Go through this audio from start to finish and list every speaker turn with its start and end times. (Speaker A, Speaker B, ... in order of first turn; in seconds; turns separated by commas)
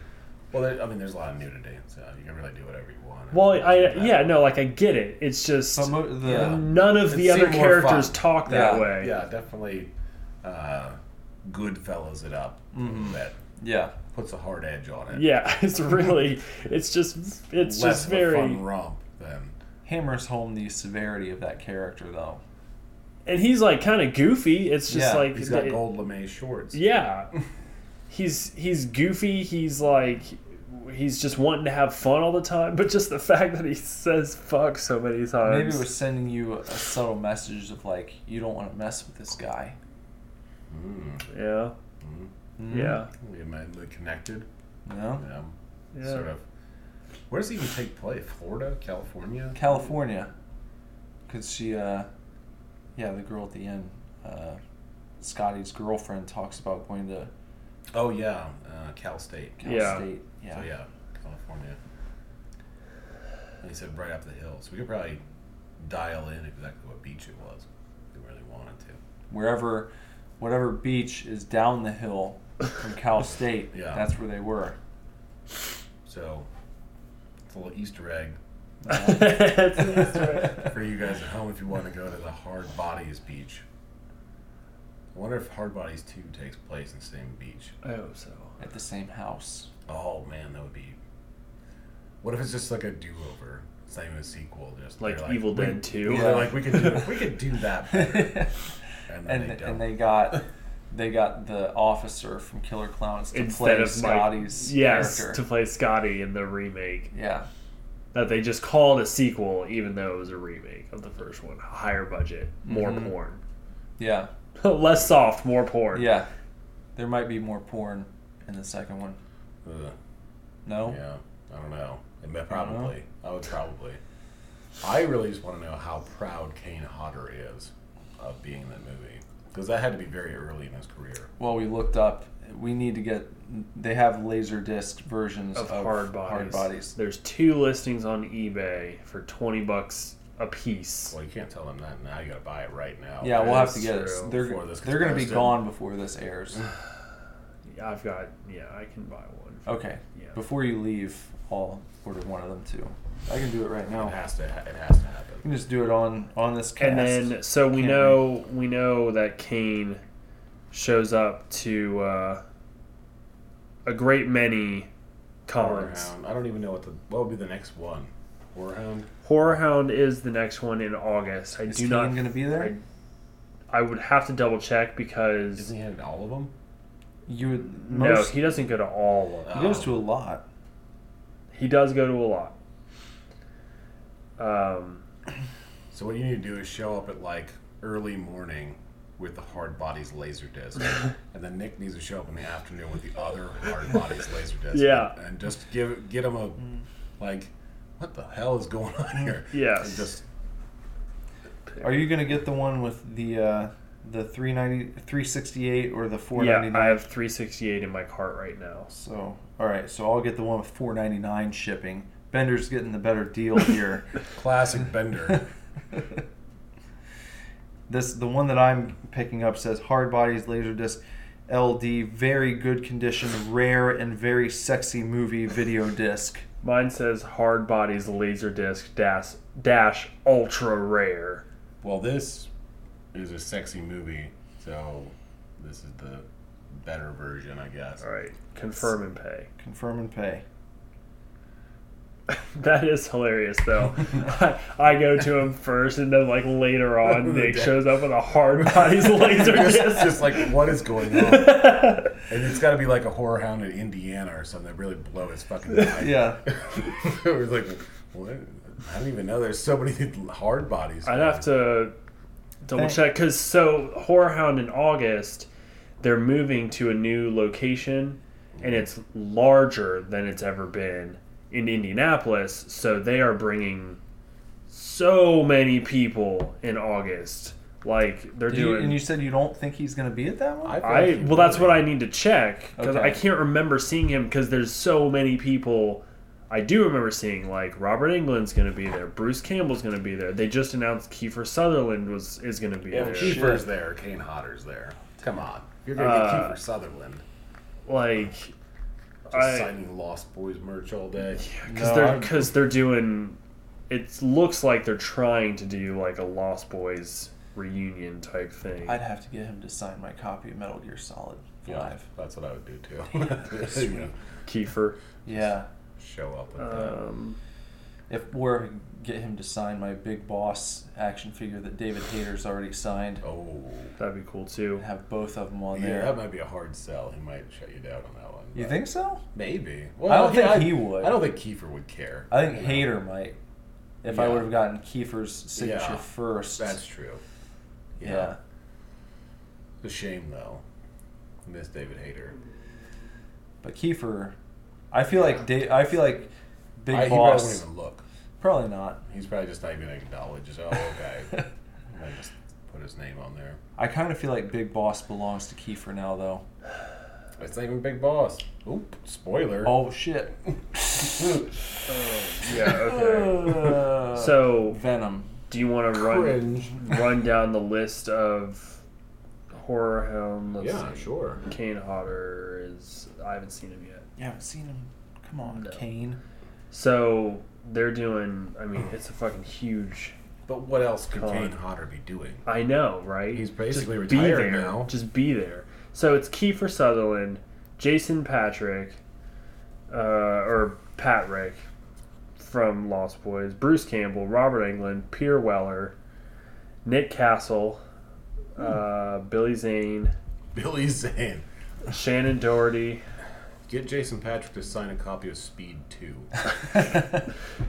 Speaker A: 0.5-4.4, Speaker B: 3.3-9.1, Speaker C: 5.7-6.6, Speaker A: 6.7-9.9, Speaker C: 8.5-8.9, Speaker A: 10.4-13.4, Speaker C: 12.7-13.9, Speaker A: 14.1-15.4, Speaker B: 15.1-18.6, Speaker A: 17.6-19.6, Speaker C: 19.9-22.4, Speaker B: 23.3-25.8, Speaker C: 24.9-25.3, Speaker A: 25.3-26.8, Speaker B: 26.7-27.3, Speaker B: 28.1-35.9, Speaker C: 35.5-39.8, Speaker A: 40.7-41.2, Speaker B: 41.3-41.7, Speaker A: 42.0-42.3, Speaker C: 42.6-43.0, Speaker B: 42.7-43.1, Speaker A: 43.2-44.5, Speaker C: 44.9-45.2, Speaker A: 45.2-46.4, Speaker B: 45.9-46.3, Speaker A: 47.3-49.6, Speaker C: 49.5-50.3, Speaker C: 51.3-52.1, Speaker C: 53.0-54.6, Speaker C: 55.2-57.3, Speaker A: 57.9-61.8, Speaker C: 59.6-60.7, Speaker B: 59.6-60.1, Speaker A: 63.6-65.2, Speaker A: 65.8-69.0, Speaker C: 69.3-74.8, Speaker A: 73.7-74.1, Speaker A: 76.0-76.5, Speaker A: 77.5-78.4, Speaker B: 78.9-80.7, Speaker A: 80.6-83.7, Speaker A: 85.1-87.7, Speaker B: 87.8-88.5, Speaker C: 88.6-89.7, Speaker A: 89.9-91.0, Speaker A: 92.2-98.5, Speaker B: 95.0-97.0, Speaker C: 96.1-96.6, Speaker C: 97.9-98.5, Speaker A: 99.1-99.9, Speaker C: 99.2-105.4, Speaker B: 103.3-107.1, Speaker C: 107.1-107.5, Speaker B: 108.1-113.4, Speaker C: 112.7-113.1, Speaker C: 114.0-114.3, Speaker B: 114.6-116.1, Speaker C: 115.9-116.3, Speaker C: 117.0-119.2, Speaker A: 119.6-120.0, Speaker C: 120.7-121.0, Speaker A: 120.8-124.0, Speaker C: 122.5-122.9, Speaker A: 124.8-131.3, Speaker C: 131.4-136.9, Speaker B: 135.6-141.2, Speaker A: 141.1-143.7, Speaker C: 143.2-146.6, Speaker B: 143.3-144.3, Speaker A: 144.3-145.7, Speaker B: 147.7-150.4, Speaker C: 149.7-154.2, Speaker A: 153.9-155.4, Speaker C: 155.4-158.3, Speaker B: 156.8-160.0, Speaker B: 160.7-162.4, Speaker B: 163.8-164.9, Speaker B: 165.5-166.1, Speaker A: 165.6-169.1, Speaker B: 169.2-172.8, Speaker C: 171.7-172.7, Speaker B: 173.7-175.7, Speaker A: 175.6-176.5, Speaker C: 177.3-178.4, Speaker B: 177.9-179.7, Speaker A: 179.5-179.9, Speaker C: 179.5-180.4, Speaker B: 181.5-182.6, Speaker B: 184.4-185.0, Speaker A: 185.9-196.6, Speaker B: 194.7-195.1, Speaker A: 197.2-200.2, Speaker B: 199.5-200.1, Speaker C: 201.8-207.1, Speaker B: 206.3-208.9, Speaker C: 208.9-214.2, Speaker A: 214.3-215.5, Speaker C: 217.9-226.4, Speaker B: 226.6-231.4, Speaker A: 231.8-232.5, Speaker A: 233.1-236.3, Speaker A: 236.8-238.0, Speaker B: 238.0-239.5, Speaker C: 239.6-240.4, Speaker B: 242.3-252.2, Speaker A: 247.1-247.8, Speaker A: 248.6-251.7, Speaker A: 252.3-261.5, Speaker C: 256.0-256.4, Speaker B: 261.1-261.9, Speaker B: 262.6-265.5, Speaker C: 262.7-263.0, Speaker B: 266.0-274.0, Speaker A: 268.6-268.9, Speaker B: 274.7-279.0, Speaker C: 278.5-280.8, Speaker A: 280.6-281.9, Speaker B: 280.8-293.5, Speaker C: 282.8-283.2, Speaker A: 292.9-297.2, Speaker C: 293.0-293.7, Speaker B: 295.9-296.6, Speaker B: 297.9-298.5, Speaker B: 299.3-299.7, Speaker A: 299.3-301.4, Speaker B: 301.4-303.4, Speaker C: 301.7-302.5, Speaker B: 303.9-309.0, Speaker C: 308.8-312.1, Speaker A: 311.6-314.1, Speaker B: 314.5-315.0, Speaker C: 315.2-315.7, Speaker A: 315.3-317.0, Speaker B: 316.6-317.4, Speaker C: 318.1-323.2, Speaker A: 323.2-324.0, Speaker B: 324.0-324.8, Speaker C: 324.8-326.2, Speaker A: 325.7-328.8, Speaker C: 328.6-329.2, Speaker A: 329.3-332.9, Speaker C: 330.1-331.3, Speaker C: 332.3-333.4, Speaker C: 334.0-336.8, Speaker A: 334.1-334.5, Speaker A: 335.6-337.2, Speaker A: 338.0-338.4, Speaker C: 338.0-338.4, Speaker A: 339.8-340.6, Speaker A: 341.4-342.4, Speaker C: 343.6-344.3, Speaker C: 344.9-347.6, Speaker A: 346.9-348.0, Speaker C: 348.4-349.0, Speaker A: 349.1-353.6, Speaker C: 353.8-356.4, Speaker A: 357.4-359.7, Speaker C: 359.6-360.4, Speaker A: 361.0-361.5, Speaker B: 361.9-364.8, Speaker C: 362.9-365.3, Speaker B: 365.5-368.8, Speaker A: 365.9-366.9, Speaker B: 369.5-374.1, Speaker A: 370.6-371.4, Speaker C: 374.2-376.2, Speaker B: 375.5-375.8, Speaker B: 376.7-380.1, Speaker A: 380.5-382.4, Speaker B: 381.1-381.5, Speaker B: 382.5-389.0, Speaker A: 383.3-384.9, Speaker B: 389.9-391.6, Speaker B: 392.4-396.0, Speaker B: 396.9-397.8, Speaker B: 398.6-400.1, Speaker A: 400.5-401.4, Speaker B: 401.9-403.0, Speaker A: 403.7-406.3